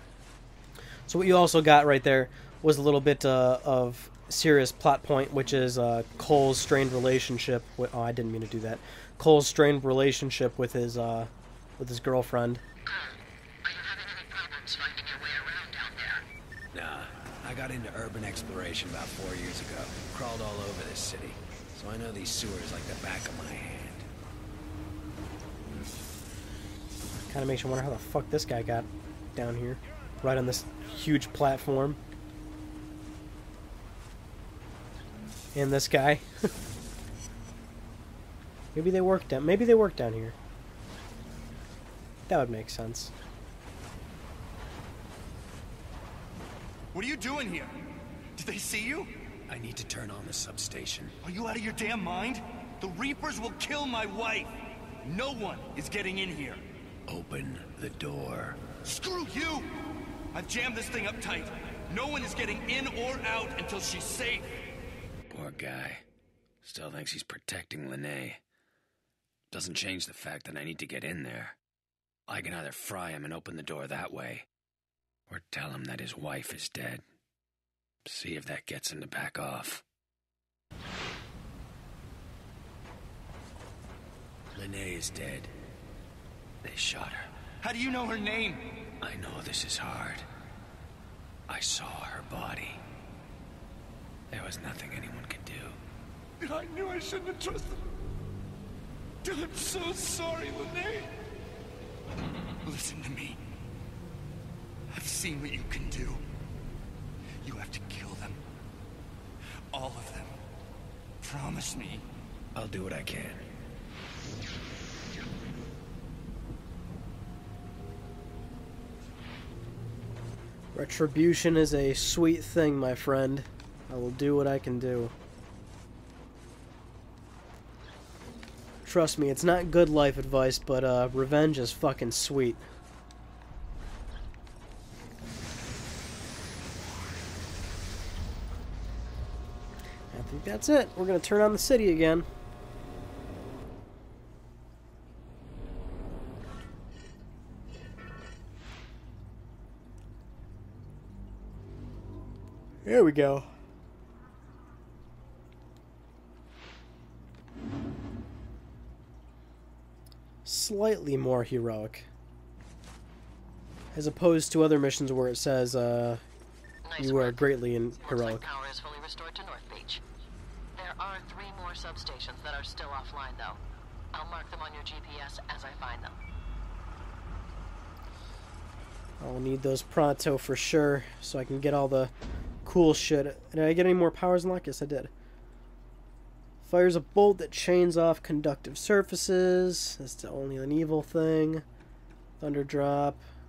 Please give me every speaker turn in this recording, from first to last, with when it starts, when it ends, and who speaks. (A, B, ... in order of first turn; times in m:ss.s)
0:01.1-0:12.6 A
0:12.8-0:16.2 B
0:16.7-0:24.1 C
0:27.3-0:32.0 A
0:35.5-0:36.5 A
0:38.7-0:40.3 A
0:42.3-0:43.1 A
0:46.9-0:47.7 D
0:48.4-0:49.2 D
0:49.5-0:51.1 C
0:51.2-0:56.6 D
0:57.1-0:58.6 C
0:58.8-0:59.7 D
1:00.3-1:04.4 D
1:05.3-1:06.0 C
1:06.6-1:08.4 C
1:09.5-1:11.6 C
1:12.3-1:14.4 C
1:15.3-1:17.0 C
1:18.0-1:19.8 C
1:24.5-1:25.5 C
1:26.6-1:27.3 C
1:27.6-1:28.8 D
1:29.0-1:30.2 C
1:31.5-1:32.8 C
1:34.3-1:35.8 C
1:36.4-1:37.8 D
1:39.2-1:41.1 D
1:42.6-1:43.4 D
1:44.9-1:46.2 D
1:47.4-1:48.4 D
1:49.7-1:50.4 D
1:51.2-1:52.0 D
1:52.5-1:53.4 C
2:00.7-2:05.1 A
2:08.8-2:12.6 A
2:20.1-2:22.3 A
2:32.8-2:33.5 A
2:40.4-2:42.0 A
2:43.9-2:46.2 A
2:46.8-2:50.0 B
2:47.0-2:48.4 A
2:50.7-2:53.6 B
2:54.1-2:56.2 B
2:59.2-3:02.1 A
3:02.6-3:05.1 A
3:06.6-3:11.6 A
3:12.4-3:13.2 A